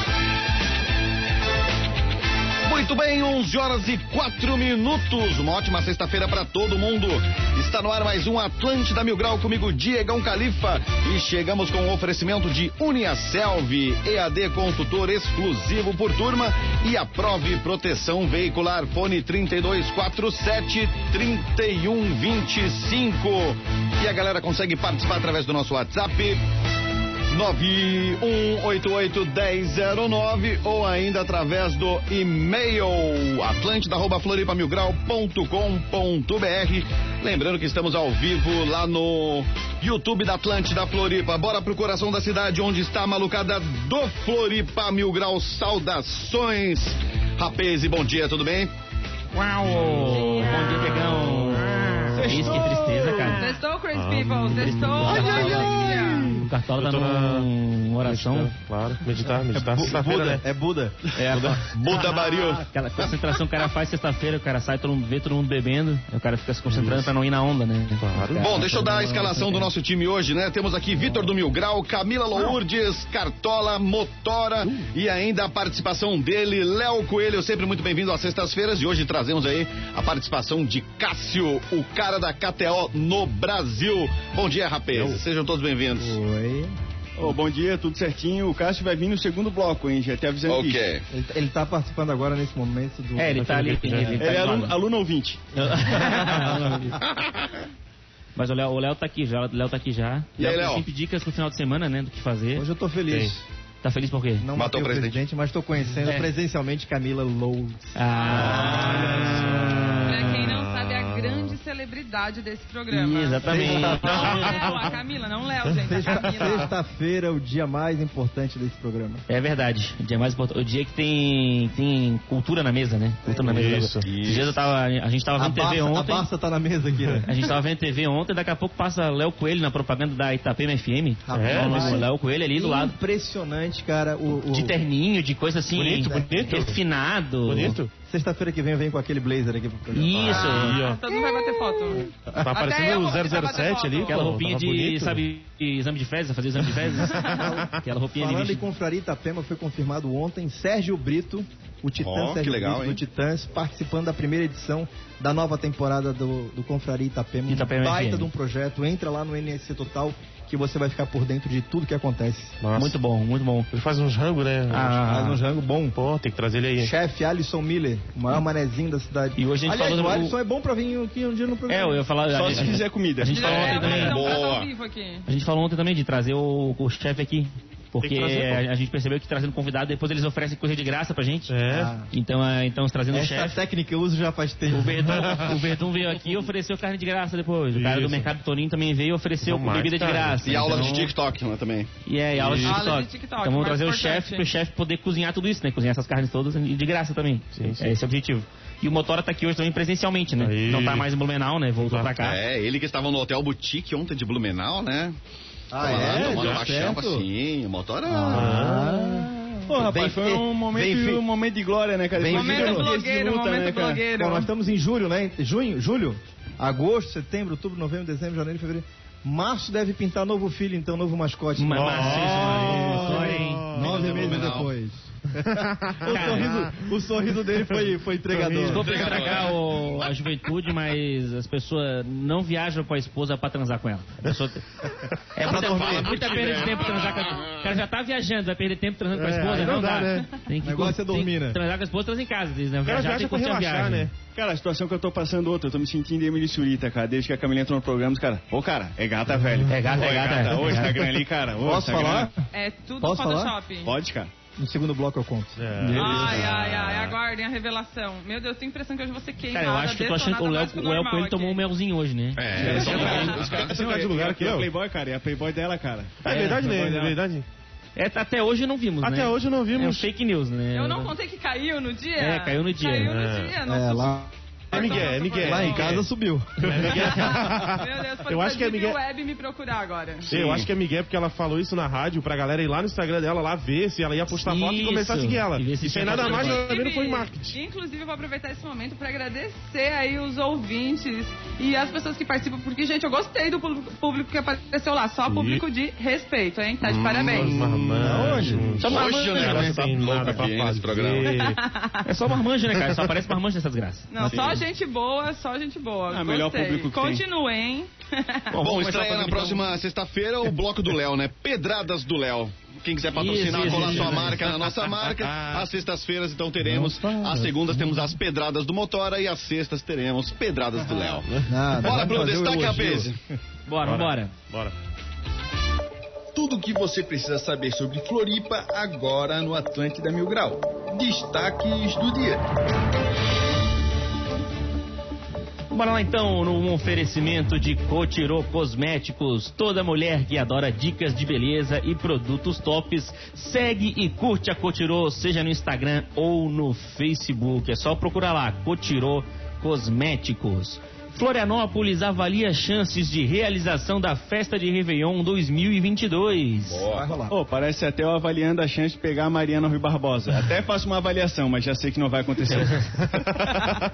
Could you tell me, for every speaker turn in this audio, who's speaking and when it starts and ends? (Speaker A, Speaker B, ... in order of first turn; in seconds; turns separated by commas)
Speaker A: 2.6-26.4, Speaker A: 27.3-48.7, Speaker B: 49.4-53.4, Speaker C: 49.6-50.1, Speaker D: 50.0-51.1, Speaker C: 51.0-52.8, Speaker E: 52.2-53.3, Speaker D: 53.4-56.3, Speaker C: 53.9-57.5, Speaker E: 55.0-56.4, Speaker B: 55.1-55.5, Speaker B: 56.5-58.5, Speaker C: 58.0-60.4, Speaker E: 59.5-61.1, Speaker B: 61.1-61.7, Speaker A: 61.6-63.1, Speaker B: 62.7-69.7, Speaker C: 66.7-67.1, Speaker C: 68.0-69.0, Speaker A: 68.4-86.2, Speaker C: 84.9-85.2, Speaker E: 86.0-86.7, Speaker F: 87.2-90.8, Speaker A: 90.5-91.0, Speaker E: 91.1-93.5, Speaker B: 93.2-94.8, Speaker C: 93.4-94.2, Speaker F: 94.2-95.4, Speaker B: 95.5-97.0, Speaker B: 98.4-102.7, Speaker A: 100.4-100.8, Speaker E: 102.5-103.5, Speaker B: 103.8-104.5, Speaker E: 104.4-109.0, Speaker A: 104.5-105.2, Speaker B: 106.0-106.3, Speaker B: 108.0-110.4, Speaker C: 108.6-110.1, Speaker D: 110.0-116.7, Speaker B: 112.9-114.9, Speaker E: 113.5-114.4, Speaker C: 114.0-114.6, Speaker E: 115.8-119.2, Speaker B: 119.3-126.3, Speaker E: 123.3-123.5, Speaker C: 123.5-124.1, Speaker A: 124.0-124.5, Speaker E: 125.4-127.2, Speaker B: 127.3-132.9, Speaker E: 131.3-134.8, Speaker C: 131.3-132.1, Speaker B: 134.4-137.8, Speaker C: 135.8-136.8, Speaker E: 136.1-136.4, Speaker C: 137.5-137.9, Speaker E: 138.1-140.8, Speaker B: 139.9-140.8, Speaker C: 140.3-141.0, Speaker D: 140.3-144.2, Speaker C: 142.3-145.2, Speaker B: 144.1-148.6, Speaker D: 147.1-147.4, Speaker E: 148.2-162.6, Speaker A: 152.0-153.0, Speaker B: 157.5-158.3, Speaker C: 162.6-163.0, Speaker B: 162.7-163.7, Speaker C: 163.7-165.1, Speaker B: 164.7-165.4, Speaker E: 165.1-166.0, Speaker C: 166.0-166.9, Speaker E: 166.8-172.1, Speaker B: 169.4-170.4, Speaker B: 171.7-174.2, Speaker F: 172.3-173.8, Speaker D: 173.3-175.2, Speaker A: 173.4-174.7, Speaker B: 175.3-181.5, Speaker C: 178.0-178.6, Speaker C: 181.5-181.9, Speaker E: 181.7-182.1, Speaker B: 182.1-183.6, Speaker E: 183.1-185.4, Speaker B: 184.7-191.1, Speaker C: 185.2-185.5, Speaker C: 187.7-188.3, Speaker C: 189.4-190.4, Speaker A: 190.4-191.9, Speaker B: 192.1-202.4, Speaker C: 192.3-192.9, Speaker D: 192.7-194.5, Speaker C: 197.6-197.9, Speaker C: 200.4-201.1, Speaker A: 202.2-205.2, Speaker E: 205.7-207.3, Speaker A: 205.8-208.7, Speaker C: 205.9-206.9, Speaker E: 208.1-211.2, Speaker C: 208.3-209.3, Speaker F: 209.7-214.0, Speaker E: 212.2-212.9, Speaker D: 212.3-214.5, Speaker E: 214.1-229.2, Speaker B: 221.6-223.7, Speaker C: 221.7-224.3, Speaker A: 223.8-224.7, Speaker C: 225.6-226.8, Speaker B: 226.0-226.5, Speaker C: 228.3-228.8, Speaker B: 228.6-234.7, Speaker A: 228.7-230.1, Speaker B: 235.3-244.1, Speaker A: 235.4-237.8, Speaker E: 235.4-236.1, Speaker C: 239.1-240.3, Speaker E: 240.6-241.6, Speaker C: 242.8-244.1, Speaker F: 244.3-252.3, Speaker B: 249.7-251.0, Speaker E: 251.6-252.5, Speaker D: 252.5-253.9, Speaker E: 253.0-253.6, Speaker F: 253.8-254.3, Speaker E: 254.6-256.1, Speaker C: 255.6-256.9, Speaker D: 255.9-261.6, Speaker A: 256.1-256.7, Speaker B: 259.5-263.4, Speaker A: 262.4-263.8, Speaker F: 262.5-267.2, Speaker C: 263.7-264.7, Speaker C: 266.2-267.4, Speaker B: 268.0-271.1, Speaker C: 269.0-270.1, Speaker D: 270.7-276.0, Speaker B: 272.2-273.2, Speaker C: 273.0-273.6, Speaker E: 273.6-276.8, Speaker C: 274.7-276.1, Speaker C: 276.6-279.0, Speaker B: 276.6-276.9, Speaker D: 276.9-280.3, Speaker C: 280.3-287.6, Speaker A: 280.3-280.7, Speaker B: 284.3-286.7, Speaker D: 286.1-297.5, Speaker C: 295.3-295.6, Speaker C: 296.8-301.6, Speaker A: 297.1-301.4, Speaker E: 298.0-298.8, Speaker D: 298.8-299.8, Speaker D: 301.3-302.0, Speaker B: 302.0-304.1, Speaker D: 304.1-308.5, Speaker E: 304.2-304.6, Speaker F: 306.1-307.2, Speaker B: 308.5-309.7, Speaker A: 308.6-321.3, Speaker B: 313.1-314.4, Speaker C: 313.5-315.7, Speaker C: 316.6-318.0, Speaker E: 321.5-323.2, Speaker A: 321.8-323.2, Speaker B: 323.7-324.3, Speaker C: 323.8-324.7, Speaker G: 326.3-332.4, Speaker B: 335.7-356.8, Speaker A: 356.6-357.2, Speaker E: 356.9-357.4, Speaker F: 357.3-362.9, Speaker B: 362.5-362.8